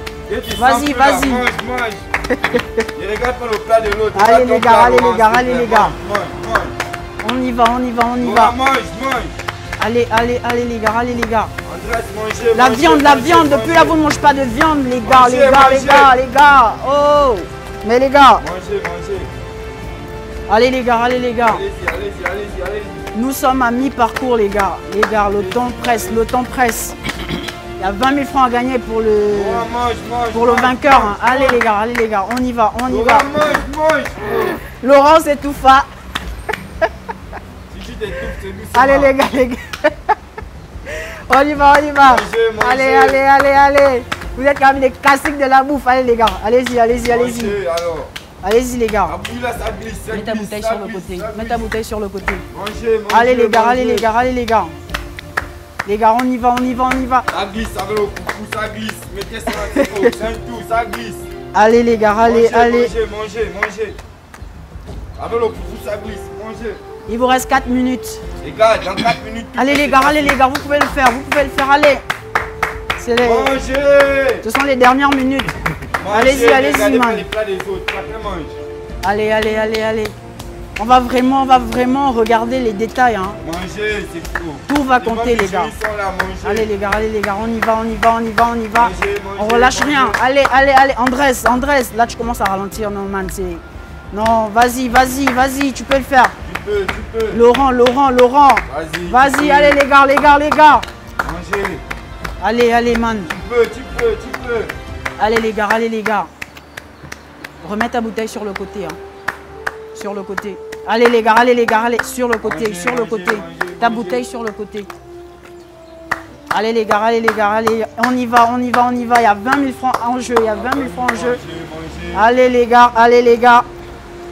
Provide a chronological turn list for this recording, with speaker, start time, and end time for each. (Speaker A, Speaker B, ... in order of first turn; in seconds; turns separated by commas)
Speaker A: 0.3-2.1, Speaker B: 0.6-1.4, Speaker A: 3.0-6.8, Speaker B: 4.2-6.0, Speaker B: 7.2-8.6, Speaker A: 8.2-9.3, Speaker B: 9.8-11.5, Speaker A: 11.6-14.0, Speaker B: 12.6-18.4, Speaker A: 15.0-16.1, Speaker A: 18.4-19.3, Speaker B: 20.5-21.6, Speaker A: 21.5-23.1, Speaker B: 23.1-27.0, Speaker A: 25.3-26.2, Speaker B: 27.8-29.7, Speaker A: 29.3-31.6, Speaker B: 30.3-33.5, Speaker A: 32.9-34.6, Speaker B: 34.8-35.9, Speaker A: 37.7-39.2, Speaker B: 38.7-40.1, Speaker B: 40.9-47.6, Speaker A: 42.0-43.2, Speaker A: 47.0-48.1, Speaker B: 48.4-49.1, Speaker A: 49.1-51.7, Speaker B: 50.1-52.5, Speaker A: 52.5-54.1, Speaker B: 53.1-54.8, Speaker B: 55.9-57.3, Speaker A: 57.3-61.3, Speaker B: 59.7-60.1, Speaker B: 61.5-62.9, Speaker A: 62.2-64.0, Speaker A: 65.2-66.8, Speaker B: 67.1-68.2, Speaker A: 68.4-70.4, Speaker B: 69.6-72.0, Speaker B: 73.0-73.5, Speaker A: 73.2-74.5, Speaker B: 74.4-75.5, Speaker A: 76.0-78.6, Speaker B: 76.1-77.3, Speaker B: 79.0-80.1, Speaker B: 80.8-83.4, Speaker A: 83.4-86.7, Speaker B: 84.7-85.7, Speaker B: 86.4-96.3, Speaker A: 88.7-90.2, Speaker A: 96.4-97.4, Speaker B: 97.3-100.9, Speaker A: 98.7-99.8, Speaker A: 101.2-101.8, Speaker B: 102.4-103.3, Speaker A: 103.3-104.7, Speaker B: 105.2-106.3, Speaker B: 107.6-109.0, Speaker B: 109.9-114.9, Speaker A: 112.4-114.2, Speaker B: 116.5-121.4, Speaker A: 120.5-122.3, Speaker B: 122.1-123.7